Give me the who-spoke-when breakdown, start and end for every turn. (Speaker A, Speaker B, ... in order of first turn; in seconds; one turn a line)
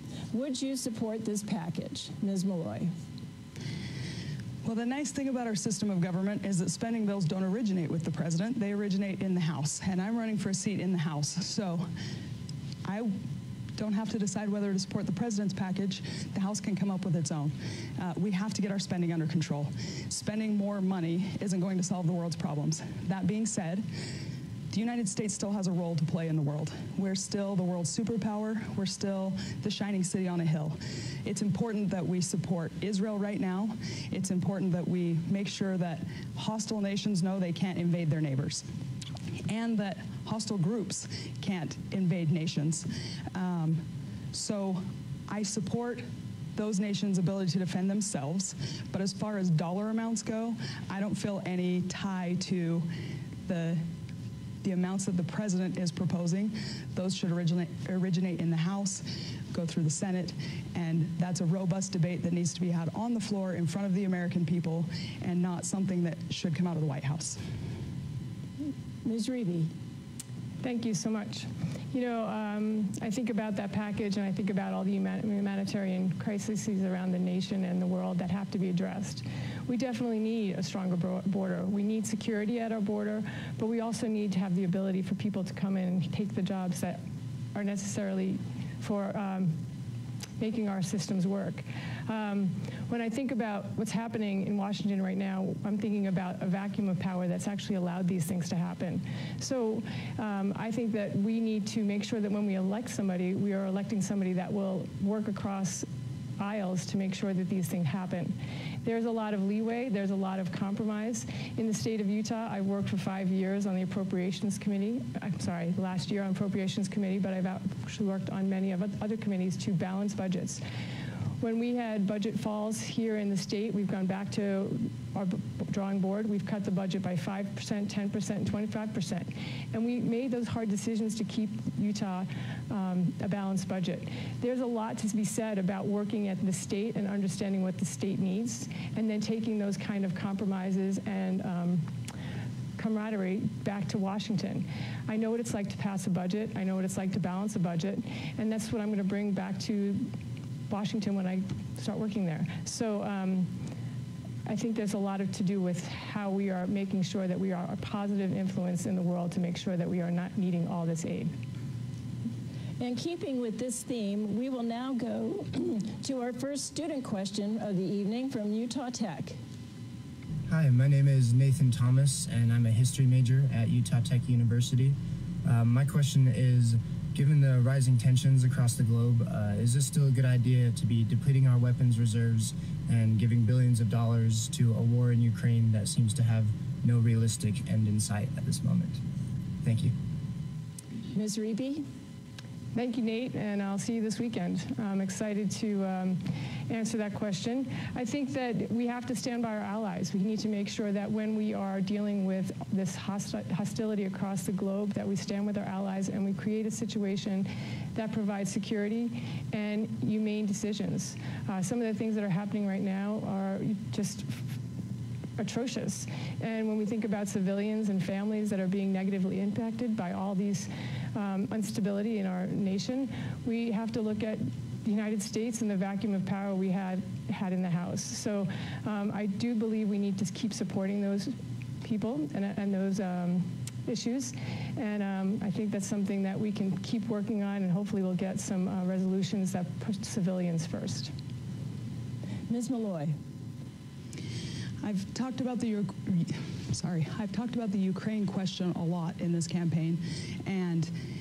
Speaker A: 0.3-2.9
Speaker B: 4.6-11.9
Speaker B: 12.8-13.2
Speaker B: 13.8-23.9
Speaker B: 24.7-38.6
Speaker B: 39.5-52.9
Speaker B: 53.5-53.8
Speaker B: 54.6-67.4
Speaker A: 69.0-69.7
Speaker C: 70.6-87.0
Speaker C: 87.5-89.6
Speaker C: 90.4-105.9
Speaker C: 106.4-120.6
Speaker C: 121.4-141.9
Speaker C: 142.8-150.1
Speaker C: 150.7-153.5
Speaker C: 154.4-161.3
Speaker A: 162.8-169.4
Speaker D: 170.5-189.0
Speaker D: 189.6-189.9
Speaker A: 191.1-191.8
Speaker C: 192.7-214.5
Speaker C: 215.4-241.1
Speaker A: 242.5-243.2
Speaker B: 244.8-250.9